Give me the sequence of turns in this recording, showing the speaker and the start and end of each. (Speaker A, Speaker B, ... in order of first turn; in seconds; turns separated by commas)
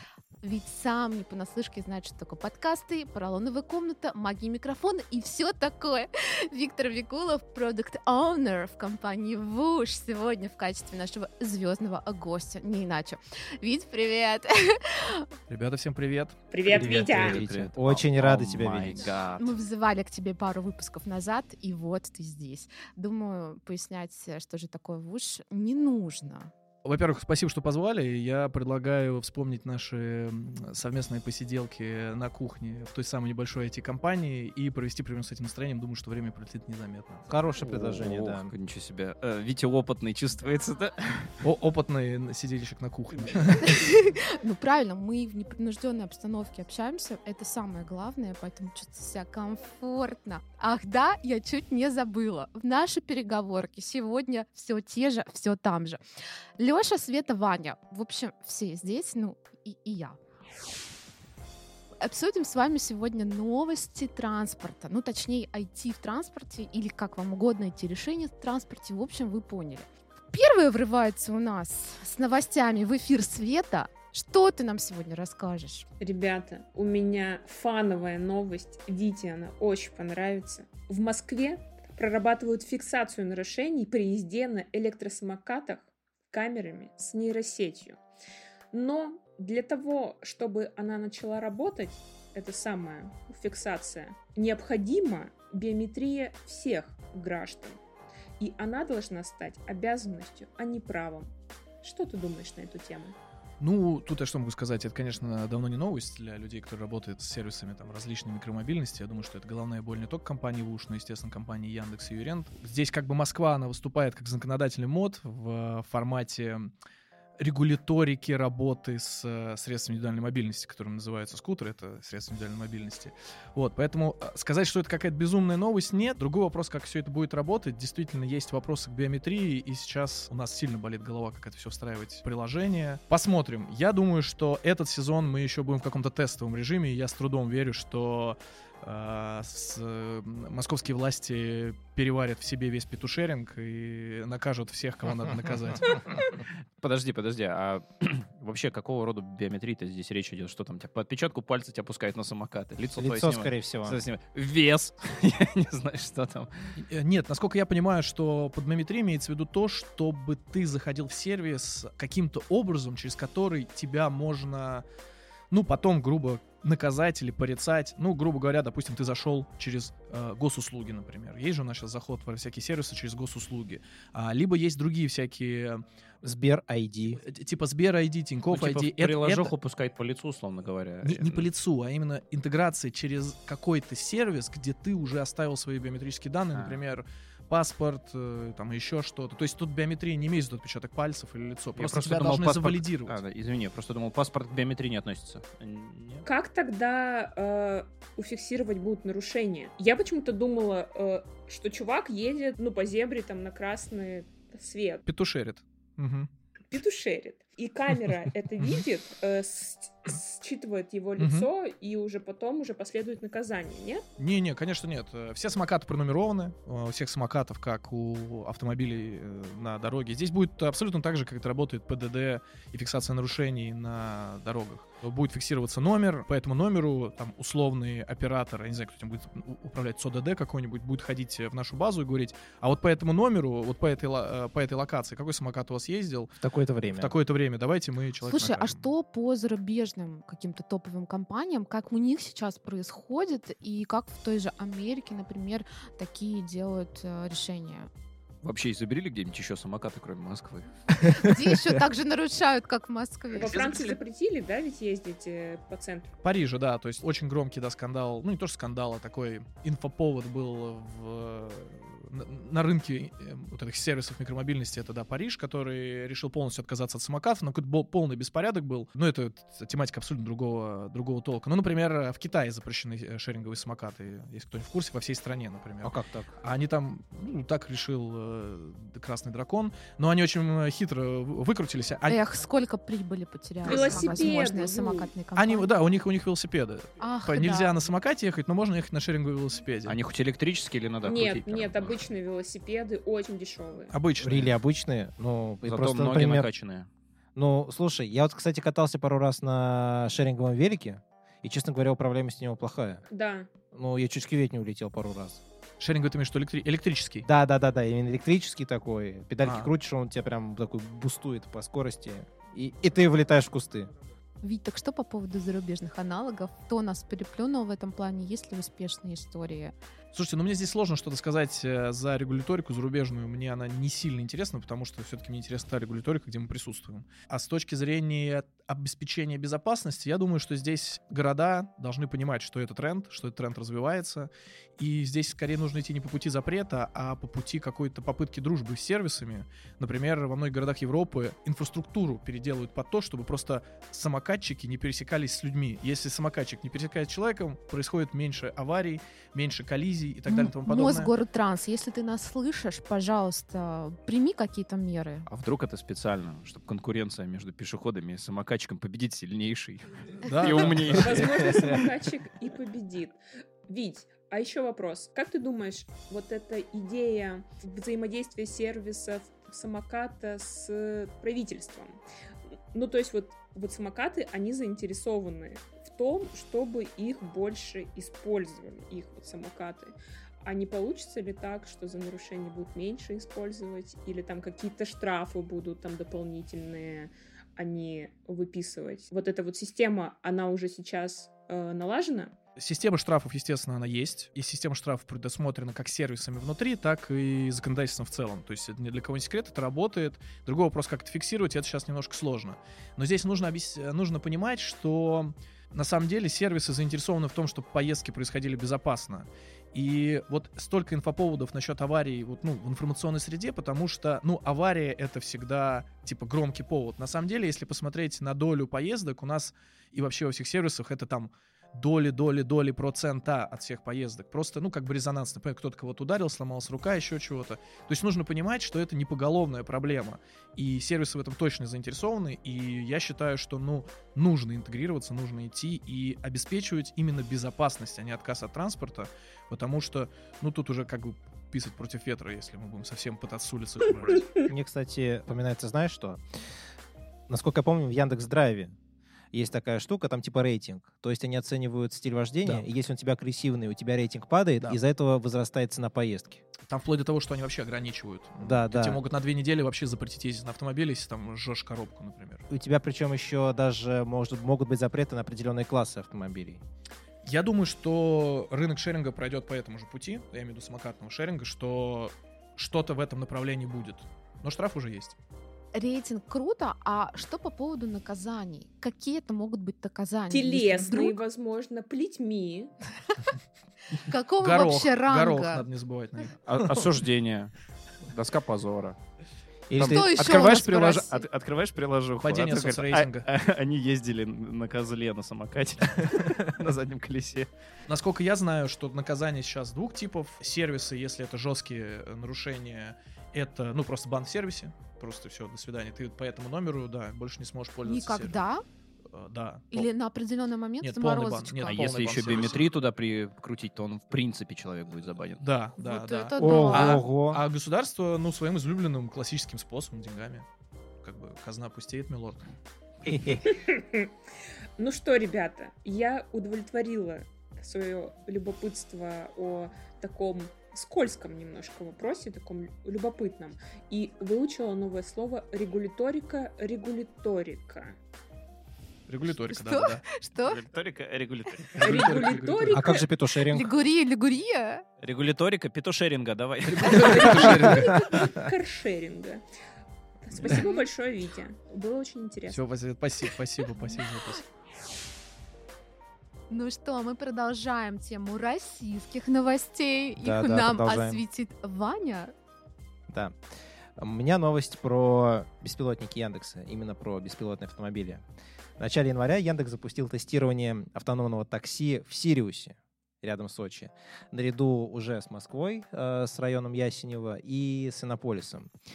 Speaker A: 0.4-15.3, Speaker B: 15.5-17.6, Speaker C: 16.5-17.4, Speaker D: 16.7-19.1, Speaker E: 16.7-19.5, Speaker A: 19.4-26.5, Speaker B: 26.8-37.3, Speaker D: 37.3-38.5, Speaker E: 37.6-41.4, Speaker B: 41.4-43.8, Speaker A: 43.6-56.0, Speaker A: 56.6-60.2, Speaker A: 62.0-75.8, Speaker C: 76.0-88.0, Speaker C: 88.7-97.8, Speaker C: 98.4-101.3, Speaker C: 101.8-103.2, Speaker B: 103.6-116.7, Speaker B: 117.4-146.2, Speaker E: 146.8-156.7, Speaker D: 152.9-154.0, Speaker B: 156.8-164.8, Speaker B: 165.5-175.8, Speaker D: 176.2-177.2, Speaker B: 177.2-179.5, Speaker E: 178.5-181.5, Speaker B: 181.0-193.2, Speaker E: 186.5-186.8, Speaker E: 191.7-196.2, Speaker C: 196.2-205.0, Speaker B: 205.0-206.3, Speaker C: 206.7-214.0, Speaker B: 211.2-211.5, Speaker B: 214.2-236.3, Speaker D: 236.4-237.1, Speaker B: 236.9-238.8, Speaker A: 238.2-247.9, Speaker E: 248.4-250.7, Speaker D: 251.0-251.8, Speaker A: 251.0-253.7, Speaker C: 253.3-256.2, Speaker B: 253.4-253.9, Speaker B: 256.2-282.2, Speaker D: 275.8-276.3, Speaker A: 282.1-285.7, Speaker C: 283.6-285.1, Speaker B: 283.7-284.3, Speaker B: 285.3-290.0, Speaker A: 287.0-287.7, Speaker E: 289.9-292.1, Speaker C: 291.0-293.9, Speaker B: 293.9-294.5, Speaker D: 294.2-296.5, Speaker E: 295.6-296.9, Speaker D: 297.3-303.0, Speaker C: 303.1-303.5, Speaker D: 303.7-305.4, Speaker B: 305.8-307.3, Speaker D: 307.2-313.9, Speaker B: 309.4-309.7, Speaker A: 314.4-319.7, Speaker B: 320.1-351.1, Speaker A: 350.3-355.3, Speaker E: 355.3-361.9, Speaker B: 360.2-361.6, Speaker C: 360.6-372.0, Speaker C: 372.7-392.3, Speaker B: 392.6-444.3, Speaker D: 444.4-446.2, Speaker D: 447.3-448.7, Speaker D: 449.3-456.4, Speaker B: 456.7-462.4, Speaker D: 458.4-459.0, Speaker D: 462.5-466.6, Speaker B: 467.2-475.1, Speaker A: 475.7-481.2, Speaker C: 480.3-482.7, Speaker A: 483.9-485.6, Speaker B: 484.4-486.4, Speaker E: 486.4-487.5, Speaker E: 488.1-488.9, Speaker D: 489.7-491.1, Speaker E: 489.8-497.5, Speaker A: 489.8-491.2, Speaker B: 492.2-493.2, Speaker B: 497.9-508.4, Speaker A: 507.8-508.6, Speaker B: 509.1-509.9, Speaker A: 509.7-512.1, Speaker B: 510.8-512.7, Speaker E: 511.7-515.4, Speaker B: 515.4-520.5, Speaker A: 515.8-517.0, Speaker D: 516.4-517.4, Speaker B: 521.0-522.4, Speaker D: 523.0-523.5, Speaker C: 523.4-524.1, Speaker C: 524.8-538.0, Speaker B: 539.1-540.0, Speaker A: 539.5-540.6, Speaker E: 540.4-542.2, Speaker B: 541.7-542.9, Speaker C: 541.8-543.0, Speaker D: 542.7-543.7, Speaker A: 543.4-544.8, Speaker E: 545.0-547.6, Speaker B: 546.6-548.3, Speaker C: 546.9-549.4, Speaker D: 547.6-547.9, Speaker C: 550.2-552.6, Speaker B: 550.3-550.6, Speaker A: 550.5-550.8, Speaker B: 552.5-554.4, Speaker A: 556.5-562.3, Speaker D: 560.2-561.2, Speaker D: 563.1-563.4, Speaker D: 564.0-568.2, Speaker D: 568.8-578.7